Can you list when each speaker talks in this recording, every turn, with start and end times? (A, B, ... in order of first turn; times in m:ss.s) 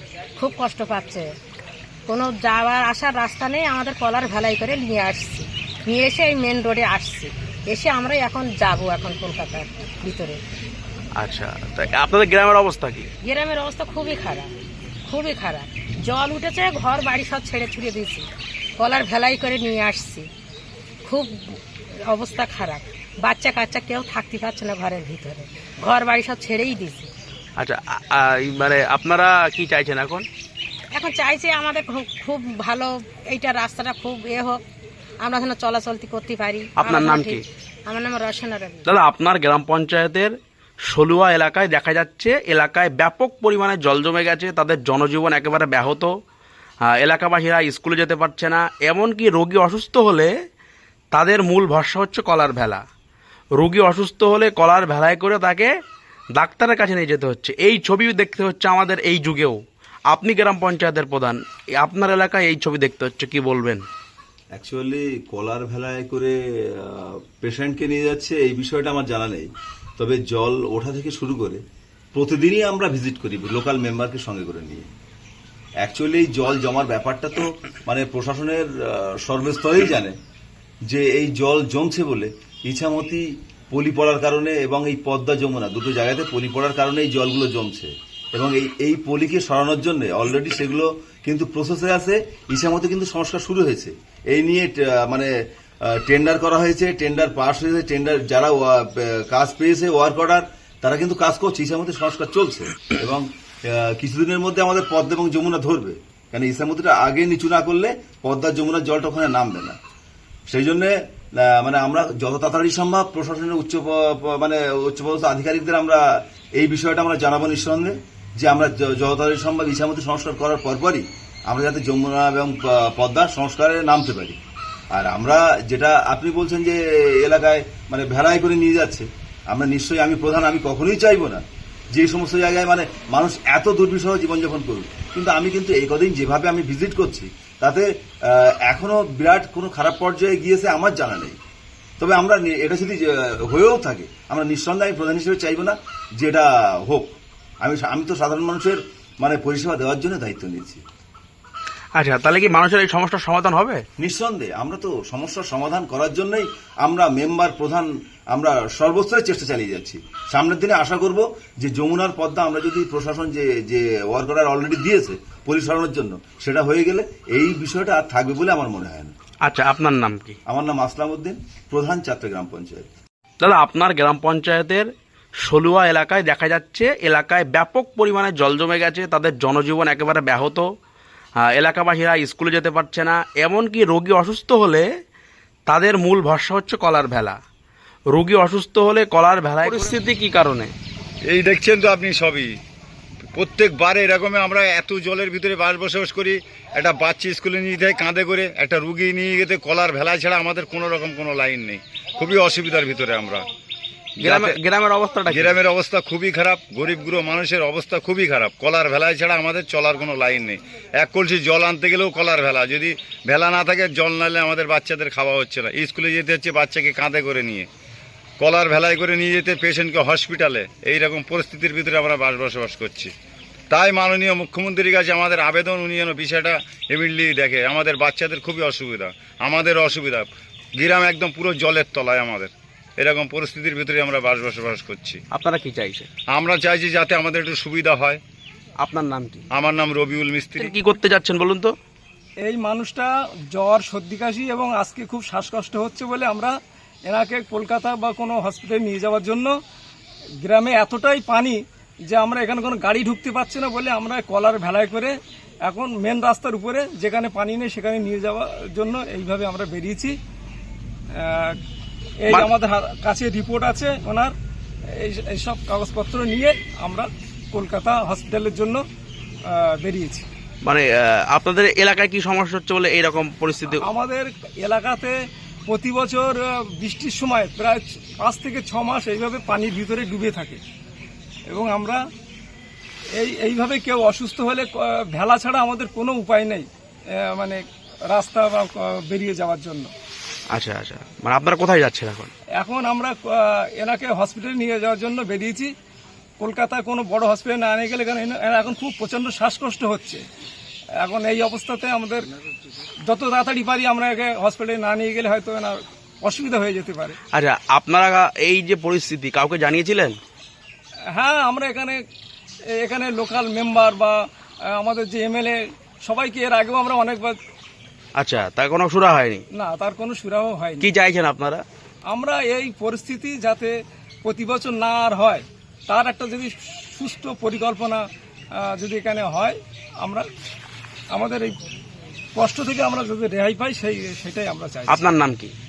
0:00.4-0:01.3 A
0:02.1-0:10.4 A
0:11.2-0:13.1 B
0:13.2-0:14.5 A
0:15.1-0:18.2 A
0:18.8-0:20.3 A
0:21.0-0:27.1 A
0:27.6-0:30.3 B
0:30.9-0:34.6 A
0:35.2-0:38.9 A
0:36.8-0:37.4 B
0:38.8-0:40.3 B
0:40.9-0:46.1 B
0:46.8-0:50.3 B
0:51.1-0:52.8 B
0:53.6-0:55.7 B
0:56.4-1:03.8 B
1:04.5-1:11.6 C
1:12.1-1:14.9 C
1:15.8-1:20.2 C
1:20.9-1:35.3 C
1:35.9-1:49.8 C
1:50.5-1:56.0 C
1:56.6-2:04.4 C
2:04.9-2:21.4 C
2:22.0-2:30.8 C
2:32.0-2:33.8 B
2:34.0-2:49.1 C
2:49.4-2:50.4 B
2:50.5-2:52.9 C
2:53.4-2:54.9 B
2:55.4-3:00.7 B
3:01.4-3:04.8 B
3:05.7-3:07.4 B
3:08.1-3:10.7 B
3:11.3-3:12.5 D
3:13.4-3:23.4 D
3:24.2-3:24.6 D
3:24.2-3:25.6 B
3:25.3-3:37.7 D
3:38.4-3:43.1 D
3:43.7-3:55.2 D
3:55.3-3:56.1 B
3:56.3-3:58.2 D
3:58.8-3:59.4 B
3:59.5-4:00.8 D
4:00.6-4:01.7 B
4:02.4-4:06.5 E
4:07.1-4:09.5 E
4:10.4-4:20.2 E
4:21.1-4:21.6 E
4:22.3-4:24.3 E
4:24.9-4:28.8 E
4:29.5-4:30.3 E
4:30.6-4:33.8 B
4:33.8-4:40.6 E
4:41.5-4:42.0 E
4:43.2-4:49.9 E
4:50.5-4:52.3 B
4:52.6-4:55.7 E
4:56.4-5:00.2 E
5:01.0-5:02.2 E
5:03.1-5:07.2 E
5:07.3-5:10.2 B
5:11.1-5:12.0 E
5:12.7-5:17.4 E
5:18.2-5:19.4 B
5:19.5-5:20.9 E
5:20.8-5:21.6 B
5:22.1-5:28.0 E
5:28.6-5:30.3 E
5:31.1-5:31.6 E
5:32.3-5:35.0 E
5:34.9-5:35.5 B